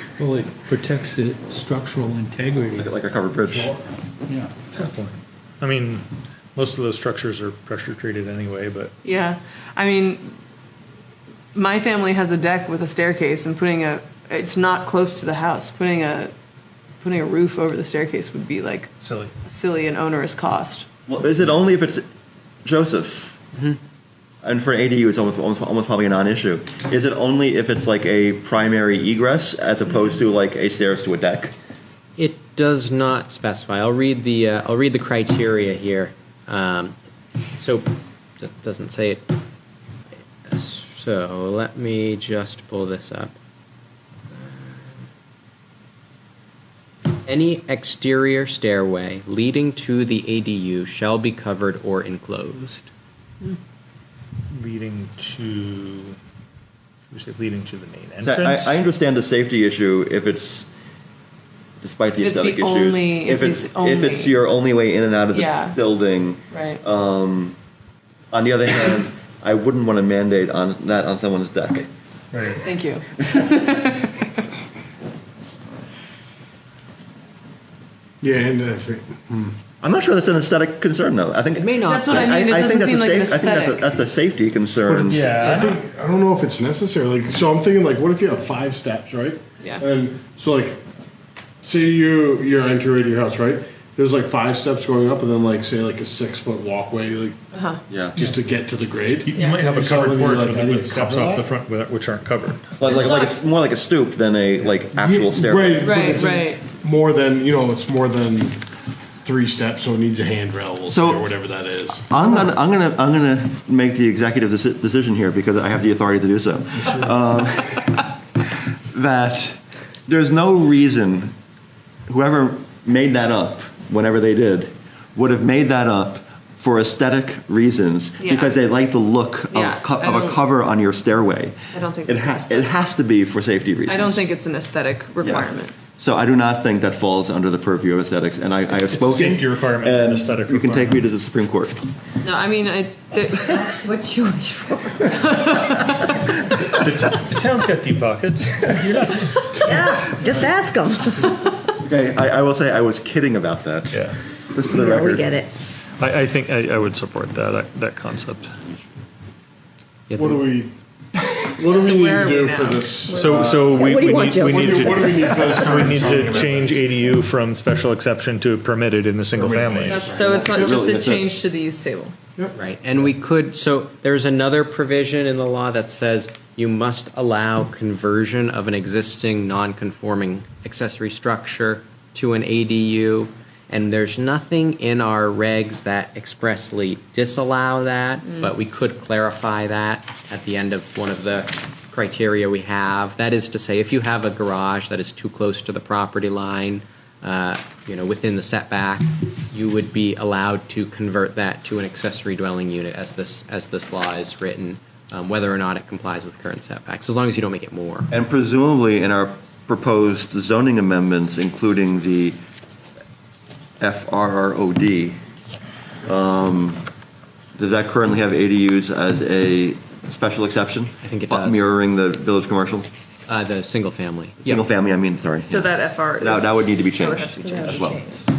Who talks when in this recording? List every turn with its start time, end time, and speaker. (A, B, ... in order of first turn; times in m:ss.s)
0:00.2-0:02.9 A
0:02.8-0:03.8 B
0:04.3-0:04.5 A
0:04.7-0:08.9 C
0:09.0-0:10.3 D
0:11.6-0:16.3 D
0:17.0-0:18.9 D
0:19.0-0:19.3 C
0:19.5-0:20.9 D
0:21.1-0:22.0 B
0:22.6-0:23.4 B
0:24.4-0:31.5 B
0:32.2-0:37.0 E
0:37.6-0:39.3 E
0:40.5-0:43.4 E
0:44.3-0:45.0 E
0:47.2-0:52.9 E
0:54.5-0:56.2 C
0:57.1-0:58.8 C
0:58.2-1:00.7 B
1:01.8-1:07.6 B
1:02.2-1:04.3 D
1:05.3-1:05.8 D
1:06.5-1:06.8 D
1:08.3-1:11.9 B
1:12.3-1:12.6 C
1:12.6-1:14.2 D
1:18.2-1:19.6 F
1:19.8-1:25.4 B
1:21.6-1:22.4 E
1:21.9-1:23.9 D
1:24.9-1:30.8 F
1:25.1-1:25.8 C
1:25.4-1:25.7 D
1:31.6-1:37.4 F
1:37.5-1:37.8 D
1:37.9-1:38.2 B
1:38.1-1:41.5 F
1:39.3-1:42.9 C
1:39.4-1:39.6 D
1:42.8-1:46.3 B
1:42.9-1:43.3 D
1:44.9-1:48.6 F
1:45.8-1:46.7 D
1:49.2-1:52.1 F
1:50.9-1:51.3 B
1:52.1-1:58.1 B
1:58.9-2:01.3 B
2:02.1-2:14.3 B
2:08.2-2:08.5 D
2:09.5-2:10.4 D
2:11.7-2:12.7 D
2:13.9-2:15.7 D
2:15.2-2:21.8 B
2:18.9-2:21.0 C
2:22.2-2:23.9 D
2:23.9-2:25.0 G
2:25.0-2:26.1 D
2:26.7-2:29.9 C
2:29.7-2:31.2 G
2:31.8-2:35.4 B
2:34.8-2:35.4 G
2:36.0-2:38.5 C
2:40.1-2:40.4 E
2:40.2-2:40.7 F
2:41.6-2:43.5 D
2:41.6-2:46.9 F
2:43.1-2:50.0 C
2:43.8-2:44.6 G
2:49.4-2:50.0 F
2:49.9-2:52.2 D
2:50.0-2:50.4 E
2:50.1-2:51.3 B
2:52.6-3:28.1 E
3:28.1-3:32.4 B
3:33.8-3:35.2 B
3:36.1-3:36.8 B
3:37.6-3:42.9 B
3:41.0-3:41.7 E
3:43.3-3:44.6 E
3:44.4-3:48.1 B
3:45.5-3:47.9 D